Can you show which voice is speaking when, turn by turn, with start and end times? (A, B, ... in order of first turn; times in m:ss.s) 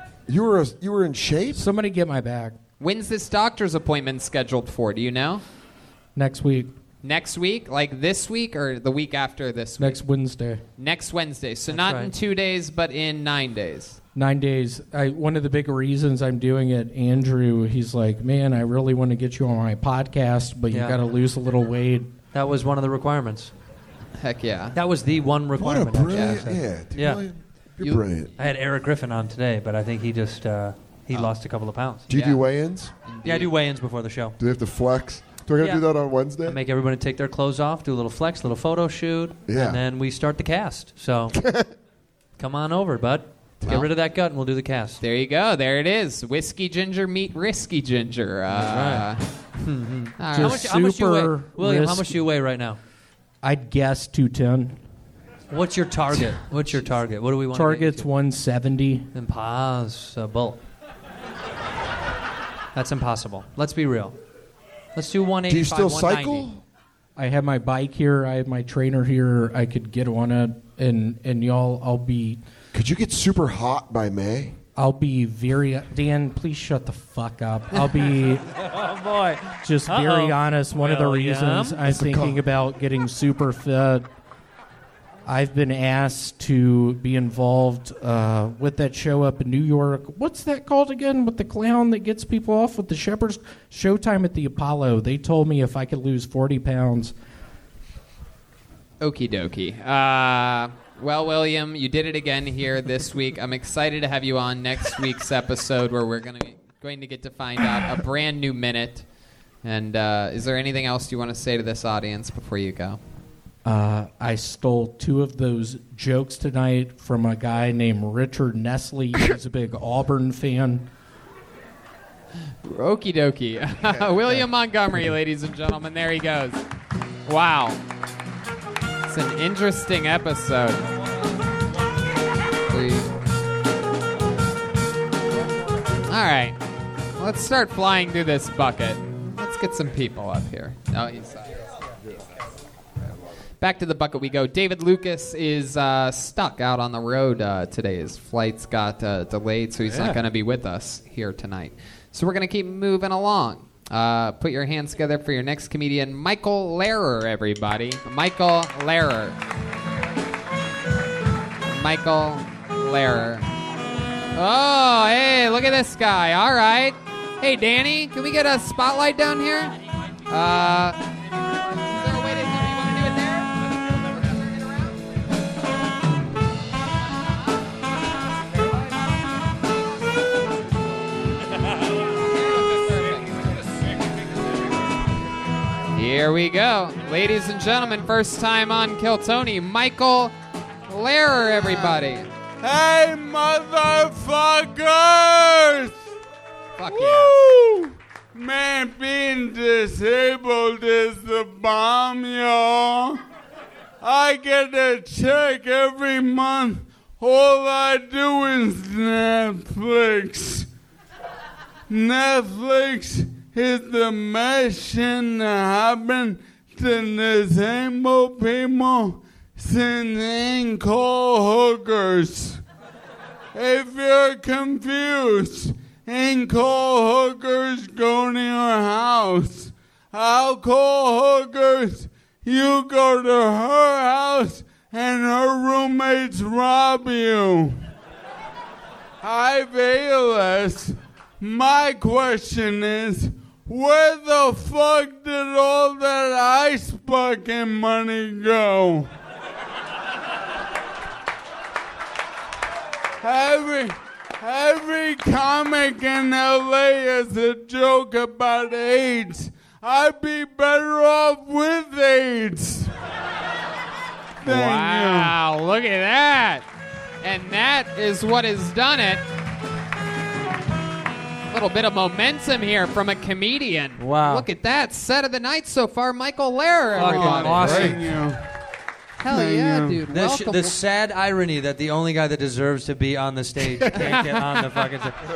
0:00.3-0:01.7 A
0:01.5-0:02.6 B
0:02.8-0:05.4 C
0:06.2-0:06.7 B
0:07.0-0:10.0 C
0:09.8-0:10.6 B
0:10.8-0:14.0 C
0:11.7-0:12.1 D
0:14.2-0:22.1 B
0:20.7-0:21.0 D
0:22.3-0:23.5 D
0:24.2-0:24.8 C
0:24.7-0:27.2 D
0:25.6-0:28.3 A
0:26.1-0:26.4 C
0:28.4-0:32.1 D
0:32.1-0:32.9 A
0:32.1-0:32.4 C
0:33.1-0:33.5 C
0:33.2-0:34.4 D
0:34.4-0:36.6 A
0:35.6-0:35.9 D
0:36.4-0:41.4 D
0:39.5-0:39.8 A
0:41.3-0:41.7 A
0:42.4-0:45.0 D
0:43.6-0:43.9 C
0:45.0-0:49.2 C
0:48.5-0:52.8 D
0:50.2-0:50.7 C
0:50.3-0:52.2 B
0:53.4-0:54.8 B
0:55.5-0:58.1 D
0:57.5-0:59.1 B
0:59.1-1:00.6 D
1:02.7-1:04.2 D
1:05.0-1:06.5 D
1:05.5-1:06.6 A
1:07.2-1:12.4 B
1:12.7-1:14.6 A
1:14.8-1:18.5 B
1:17.9-1:21.9 D
1:19.6-1:24.1 B
1:21.8-1:22.4 A
1:25.3-1:37.1 B
1:39.0-1:49.0 C
1:49.6-1:53.0 C
1:53.6-2:00.9 B
2:02.6-2:06.6 C
2:07.3-2:07.8 C
2:09.1-2:10.8 C
2:12.7-2:13.1 C
2:16.1-2:16.6 C
2:17.2-2:21.7 C
2:23.6-2:39.4 C
2:41.7-2:43.5 C
2:44.3-2:49.7 C
2:50.3-2:51.0 C
2:51.8-2:54.9 C
3:02.1-3:03.3 C
3:06.0-3:10.4 C
3:10.9-3:12.3 C
3:11.5-3:12.0 E
3:12.6-3:16.1 E
3:16.8-3:17.4 C
3:16.9-3:23.2 E
3:24.0-3:30.7 E
3:31.9-3:42.6 E
3:43.6-3:57.8 E
3:59.2-4:09.1 E
4:13.2-4:22.9 E
4:24.4-4:25.3 E
4:24.4-4:26.6 C
4:27.2-4:29.2 C
4:31.5-4:38.0 C
4:34.0-4:34.5 D
4:37.0-4:38.1 D
4:37.0-4:38.4 E
4:39.2-4:40.8 C
4:39.2-4:40.0 E
4:40.1-4:45.2 D
4:43.9-4:44.4 C